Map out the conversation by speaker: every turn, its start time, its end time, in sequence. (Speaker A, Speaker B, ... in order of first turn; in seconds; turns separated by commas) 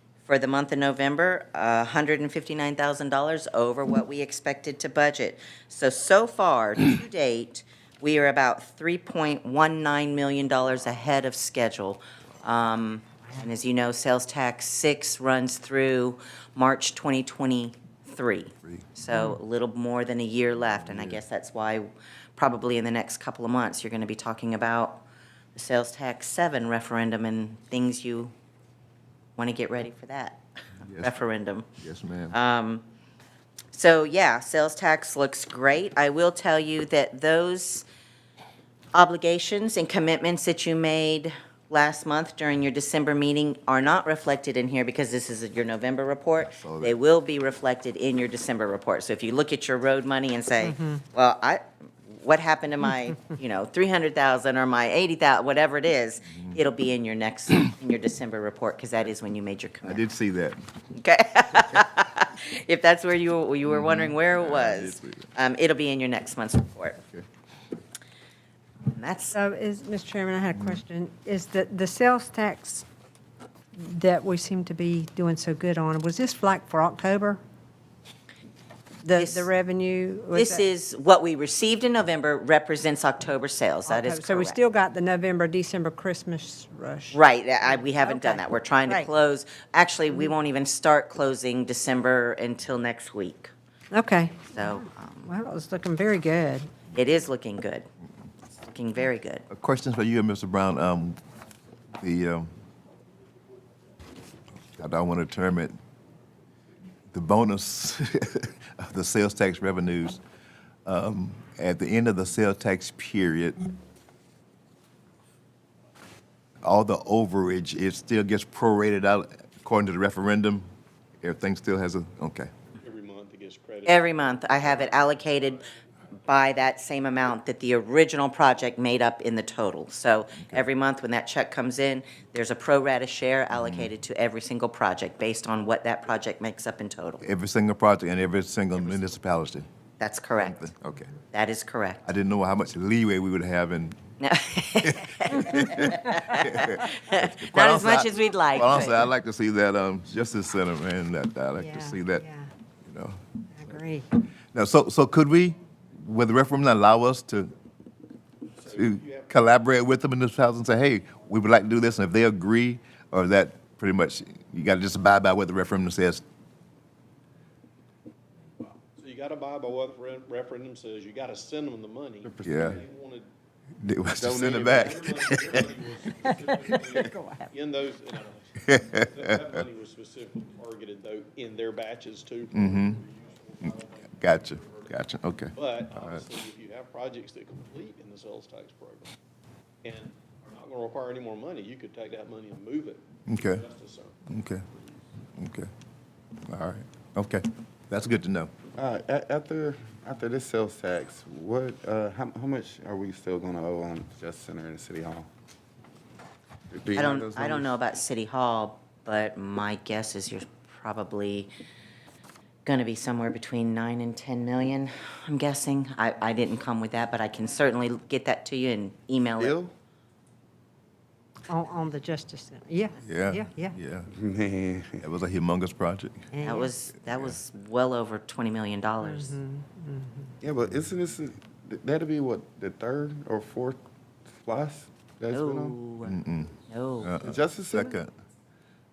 Speaker A: 0.3-25.0, Speaker B: 20.8-21.2, Speaker A: 25.6-28.3, Speaker A: 29.4-31.7, Speaker B: 30.9-31.1, Speaker B: 31.8-32.4, Speaker A: 32.3-32.9, Speaker A: 33.7-37.9, Speaker A: 38.9-60.0, Speaker B: 46.5-47.0, Speaker B: 56.3-56.6, Speaker B: 59.8-60.6, Speaker A: 60.9-67.0, Speaker B: 63.7-65.3, Speaker A: 68.9-69.4, Speaker C: 69.3-72.8, Speaker C: 73.8-77.4, Speaker C: 79.0-80.7, Speaker A: 79.1-79.5, Speaker A: 80.3-84.6, Speaker C: 83.9-89.1, Speaker A: 87.1-93.5, Speaker C: 93.9-96.7, Speaker A: 94.5-95.3, Speaker A: 96.9-97.9, Speaker A: 98.5-99.5, Speaker B: 99.5-101.2, Speaker B: 102.0-102.5, Speaker B: 104.8-105.8, Speaker B: 107.1-110.2, Speaker B: 110.8-113.7, Speaker B: 116.6-120.7, Speaker B: 121.2-122.5, Speaker D: 122.8-124.6, Speaker A: 123.8-125.6, Speaker A: 126.2-137.2, Speaker B: 133.5-133.9, Speaker B: 137.2-139.7, Speaker A: 140.0-140.6, Speaker B: 140.4-141.1, Speaker A: 141.3-142.1, Speaker B: 142.1-144.0, Speaker A: 144.2-149.1, Speaker B: 144.8-152.2, Speaker C: 151.6-152.5, Speaker B: 152.9-153.2, Speaker C: 153.5-154.1, Speaker B: 154.5-157.5, Speaker D: 158.5-159.3, Speaker B: 158.7-166.2, Speaker D: 168.6-173.3, Speaker E: 172.2-172.8, Speaker B: 172.4-172.8, Speaker B: 173.8-175.7, Speaker E: 174.2-175.1, Speaker D: 174.4-184.9, Speaker B: 176.6-177.0, Speaker C: 177.0-177.5, Speaker B: 178.6-179.4, Speaker B: 182.5-183.0, Speaker B: 183.6-186.2, Speaker D: 185.5-189.1, Speaker D: 189.8-195.0, Speaker B: 193.3-193.6, Speaker B: 194.3-194.7, Speaker B: 195.4-195.7, Speaker B: 196.4-198.5, Speaker E: 198.8-205.3, Speaker E: 206.7-207.7, Speaker A: 207.0-211.5, Speaker A: 212.7-219.6, Speaker E: 219.4-219.7, Speaker C: 221.5-223.8, Speaker B: 223.0-224.1, Speaker E: 224.1-225.1, Speaker B: 225.0-226.3, Speaker C: 226.3-226.7, Speaker A: 226.4-229.4, Speaker B: 227.0-227.4, Speaker C: 229.0-230.4, Speaker E: 230.4-233.8, Speaker E: 234.4-235.8, Speaker A: 235.3-237.1, Speaker B: 236.1-238.1, Speaker E: 237.2-238.0